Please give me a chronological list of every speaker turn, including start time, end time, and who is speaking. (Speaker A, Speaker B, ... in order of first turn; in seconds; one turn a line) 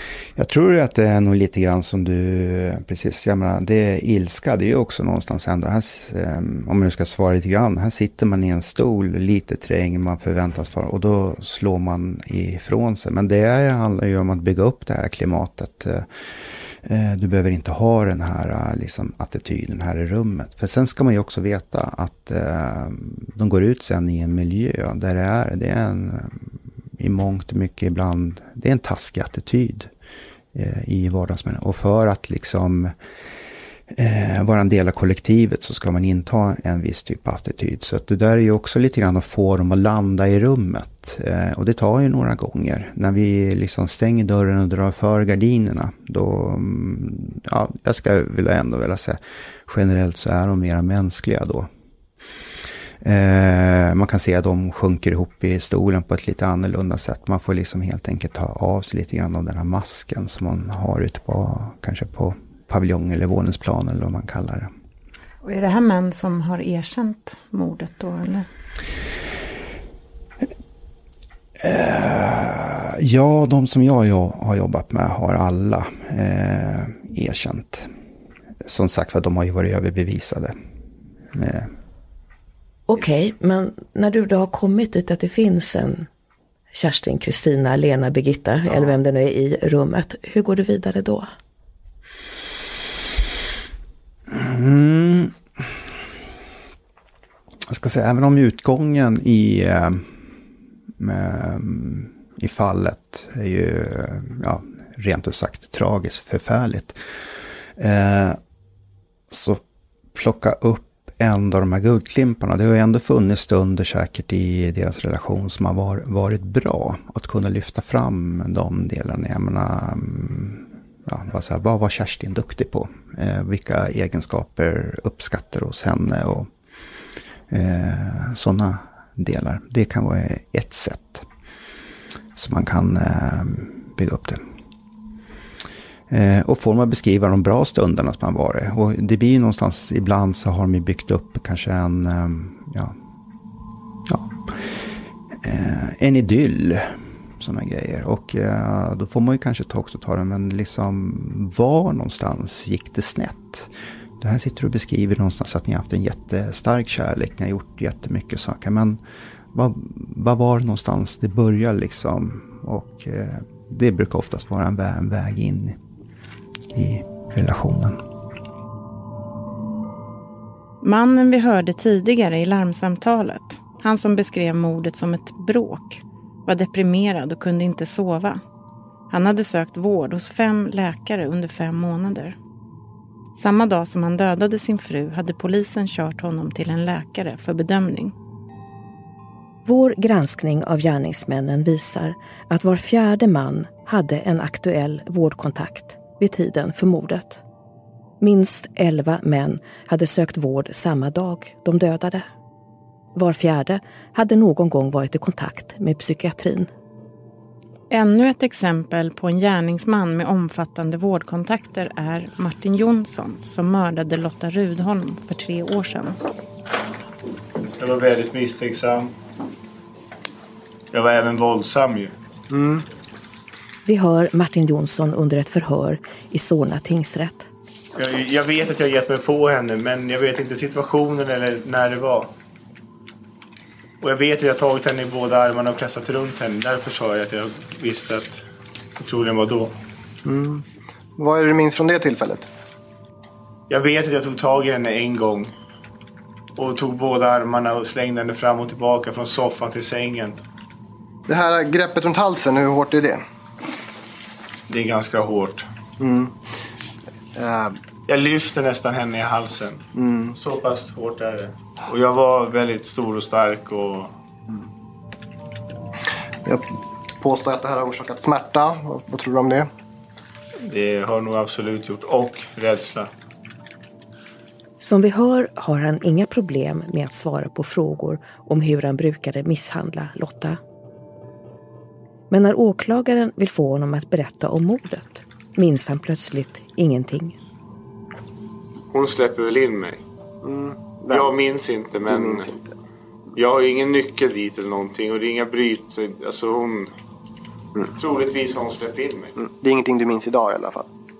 Speaker A: 0.4-16.1
Speaker A: 16.8-29.9
Speaker A: 30.5-32.9
Speaker A: 33.9-51.7
Speaker A: 53.0-64.7
Speaker B: 65.4-68.5
Speaker A: 71.6-77.9
Speaker A: 78.6-80.5
Speaker A: 81.3-81.7
Speaker C: 82.9-86.1
Speaker C: 86.7-91.3
Speaker A: 94.3-95.6
Speaker A: 97.7-100.3
Speaker A: 101.0-107.0
Speaker A: 107.8-108.4
Speaker A: 109.3-109.6
Speaker A: 110.2-126.5
Speaker A: 127.5-131.2
Speaker A: 132.3-134.4
Speaker A: 136.1-142.9
Speaker A: 144.1-144.3
Speaker A: 145.4-159.0
Speaker A: 159.5-165.8
Speaker A: 166.7-168.0
Speaker B: 170.8-178.4
Speaker B: 179.1-182.4
Speaker B: 183.3-188.2
Speaker C: 189.7-197.4
Speaker C: 198.2-202.2
Speaker C: 203.2-206.7
Speaker B: 207.9-216.2
Speaker D: 217.8-219.1
Speaker D: 220.9-222.1
Speaker E: 222.5-222.9
Speaker C: 223.8-227.5
Speaker D: 227.9-232.3
Speaker D: 234.0-238.5
Speaker D: 239.0-239.7
Speaker E: 240.2-240.7
Speaker E: 241.2-242.5
Speaker D: 243.7-245.5
Speaker D: 246.6-250.4
Speaker E: 251.3-253.2
Speaker D: 254.7-255.7
Speaker E: 256.0-256.4
Speaker E: 257.4-257.8
Speaker D: 258.1-259.9
Speaker E: 260.0-260.4
Speaker D: 260.4-264.1
Speaker E: 266.4-269.7
Speaker D: 270.6-273.1
Speaker C: 274.8-280.6
Speaker C: 282.3-287.4
Speaker D: 288.9-290.0
Speaker E: 290.4-291.4
Speaker D: 291.1-292.5
Speaker E: 292.1-292.8
Speaker D: 293.4-296.9
Speaker D: 297.9-299.3
Speaker E: 299.4-300.9